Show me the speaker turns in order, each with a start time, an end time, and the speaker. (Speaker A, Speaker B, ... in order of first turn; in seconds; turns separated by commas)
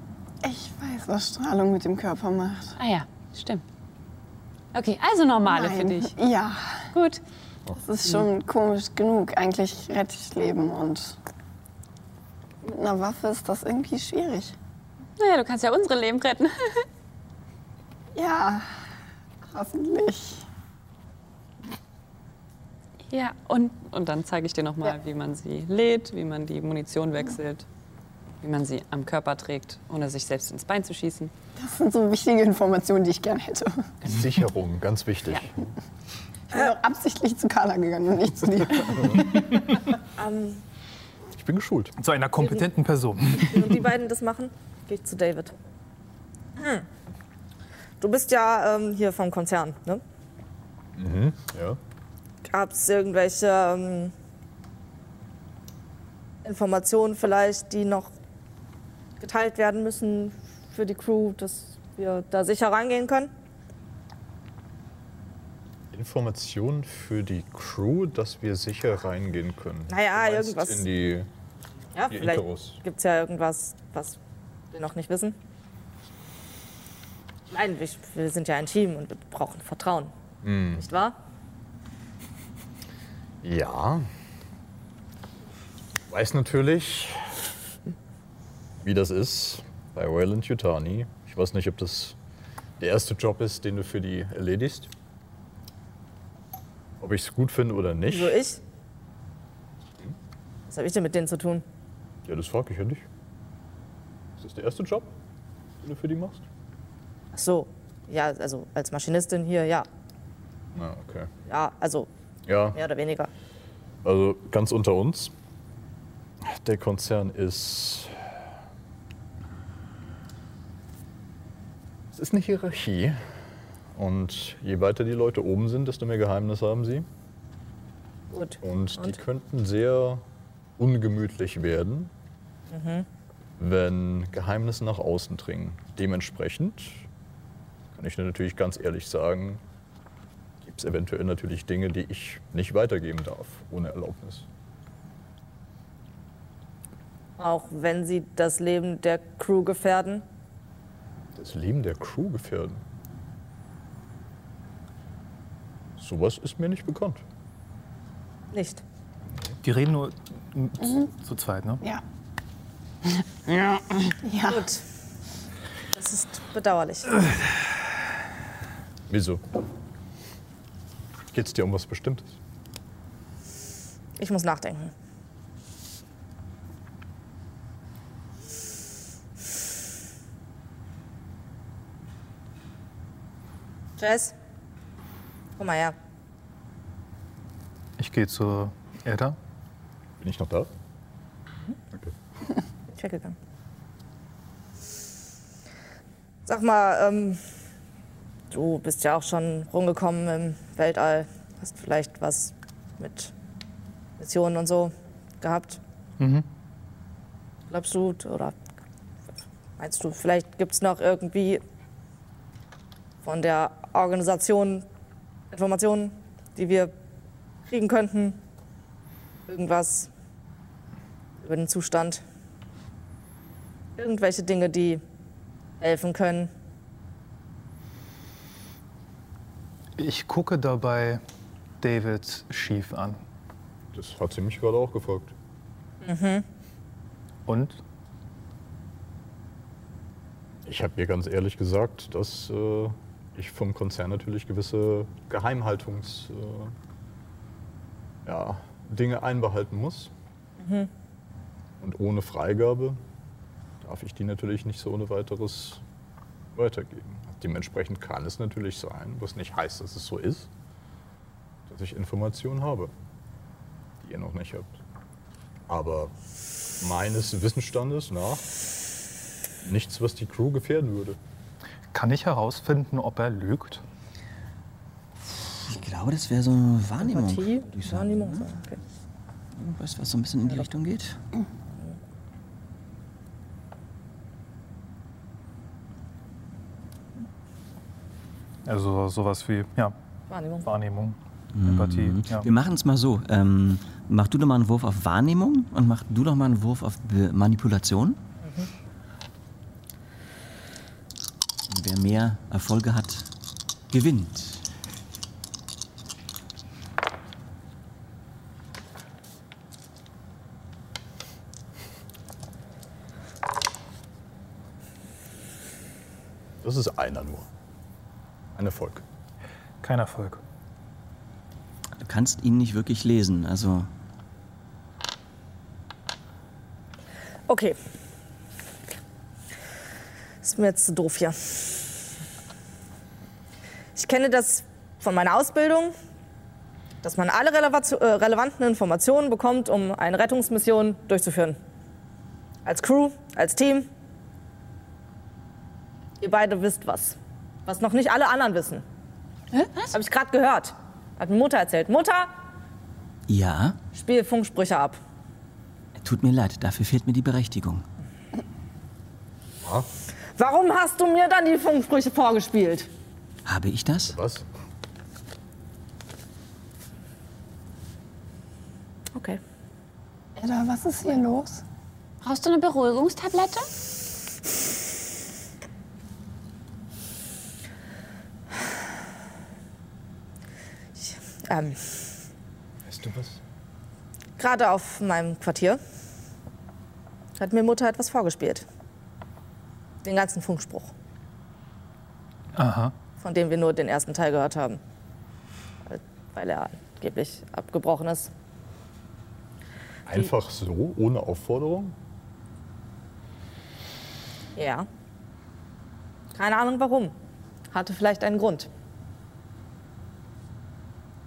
Speaker A: 0.4-2.8, Speaker B: 2.8-3.6, Speaker B: 4.7-6.1, Speaker C: 4.8-5.7, Speaker A: 5.4-6.9, Speaker B: 6.9-7.2, Speaker A: 7.7-11.2, Speaker A: 12.6-14.6, Speaker B: 15.2-16.8, Speaker A: 18.1-18.7, Speaker A: 19.4-20.4, Speaker B: 23.1-27.6, Speaker B: 28.4-31.3, Speaker A: 31.6-34.1, Speaker D: 34.0-35.7, Speaker A: 36.5-39.7, Speaker D: 38.9-39.2, Speaker E: 40.2-40.6, Speaker D: 41.4-41.9, Speaker F: 42.0-43.8, Speaker E: 42.4-42.7, Speaker E: 43.3-45.6, Speaker E: 46.6-46.9, Speaker E: 48.0-50.0, Speaker D: 51.0-51.8, Speaker E: 52.4-54.1, Speaker E: 56.4-58.1, Speaker E: 59.2-63.3, Speaker D: 65.9-71.3, Speaker E: 69.9-70.9, Speaker E: 71.9-74.2, Speaker D: 72.1-72.8, Speaker E: 74.7-75.3, Speaker E: 77.5-80.1, Speaker D: 80.4-80.8, Speaker E: 80.8-81.2, Speaker D: 83.4-84.1, Speaker D: 86.1-87.3, Speaker D: 88.8-92.2, Speaker D: 92.8-94.9, Speaker D: 97.0-98.4, Speaker E: 98.1-98.6, Speaker E: 100.7-101.6, Speaker D: 102.2-103.0, Speaker D: 104.4-105.1, Speaker D: 105.8-106.4, Speaker E: 107.3-109.9, Speaker D: 110.7-111.3, Speaker E: 111.5-112.1, Speaker D: 112.5-112.8, Speaker E: 112.8-113.3, Speaker D: 114.0-115.3, Speaker D: 116.4-118.2, Speaker D: 122.1-123.2, Speaker D: 123.9-127.0, Speaker E: 128.3-129.1, Speaker D: 128.6-130.2, Speaker D: 130.8-132.1, Speaker E: 132.7-133.1, Speaker D: 133.6-137.1, Speaker D: 137.9-139.6, Speaker D: 140.6-144.4, Speaker E: 147.4-150.2, Speaker D: 151.3-152.8, Speaker D: 156.0-157.2, Speaker E: 158.5-158.8, Speaker F: 159.6-161.8, Speaker A: 164.2-164.7, Speaker E: 164.5-164.8, Speaker E: 165.9-167.2, Speaker D: 169.1-169.5, Speaker D: 171.3-172.3, Speaker E: 174.2-174.9, Speaker E: 184.0-184.3, Speaker E: 185.6-185.9, Speaker F: 188.0-189.3, Speaker D: 190.2-190.7, Speaker E: 192.9-193.3, Speaker E: 196.4-197.4, Speaker E: 198.5-203.3, Speaker E: 204.2-205.8, Speaker F: 206.2-206.4, Speaker E: 207.7-208.6, Speaker E: 209.8-211.6, Speaker E: 213.2-214.8, Speaker E: 215.5-216.9, Speaker E: 217.7-218.4, Speaker E: 219.5-220.1, Speaker E: 221.4-222.2, Speaker E: 224.0-225.0, Speaker E: 225.8-226.5, Speaker F: 230.0-231.2, Speaker F: 231.8-233.2, Speaker D: 233.9-235.3, Speaker E: 236.0-236.4, Speaker F: 237.5-237.8, Speaker D: 240.6-246.7, Speaker D: 248.2-250.1, Speaker E: 250.6-250.9, Speaker D: 251.8-253.0, Speaker D: 253.8-255.8, Speaker D: 256.5-260.5, Speaker D: 261.7-262.9, Speaker D: 264.0-264.8, Speaker D: 265.7-266.1, Speaker D: 266.8-268.4, Speaker D: 269.6-271.2, Speaker F: 271.9-273.8, Speaker G: 275.6-278.5, Speaker E: 277.0-278.8, Speaker G: 279.6-281.2, Speaker F: 288.6-289.9, Speaker E: 290.3-290.7, Speaker F: 290.6-292.5, Speaker G: 291.5-298.2, Speaker E: 298.4-298.7, Speaker G: 301.7-303.3, Speaker G: 303.9-304.6, Speaker D: 316.6-317.5, Speaker D: 318.6-319.0, Speaker F: 319.8-320.4, Speaker G: 322.0-323.9, Speaker E: 327.5-327.8, Speaker E: 330.4-332.0, Speaker E: 333.9-335.9, Speaker E: 337.0-341.6, Speaker E: 342.6-343.9, Speaker E: 346.2-348.8, Speaker E: 349.9-352.3, Speaker G: 353.3-353.8, Speaker E: 353.9-355.0, Speaker G: 356.0-357.8, Speaker E: 360.4-362.9, Speaker G: 363.4-364.1, Speaker D: 364.1-364.4, Speaker E: 369.1-369.4, Speaker A: 370.4-371.6, Speaker C: 372.2-373.6, Speaker E: 381.0-382.1, Speaker D: 382.9-383.4, Speaker E: 384.4-385.8, Speaker E: 387.4-388.6, Speaker E: 390.0-390.9, Speaker F: 392.6-392.9, Speaker E: 393.2-394.8, Speaker E: 395.9-398.3, Speaker D: 400.1-401.9, Speaker E: 404.6-404.9, Speaker E: 406.3-407.1, Speaker E: 407.7-408.7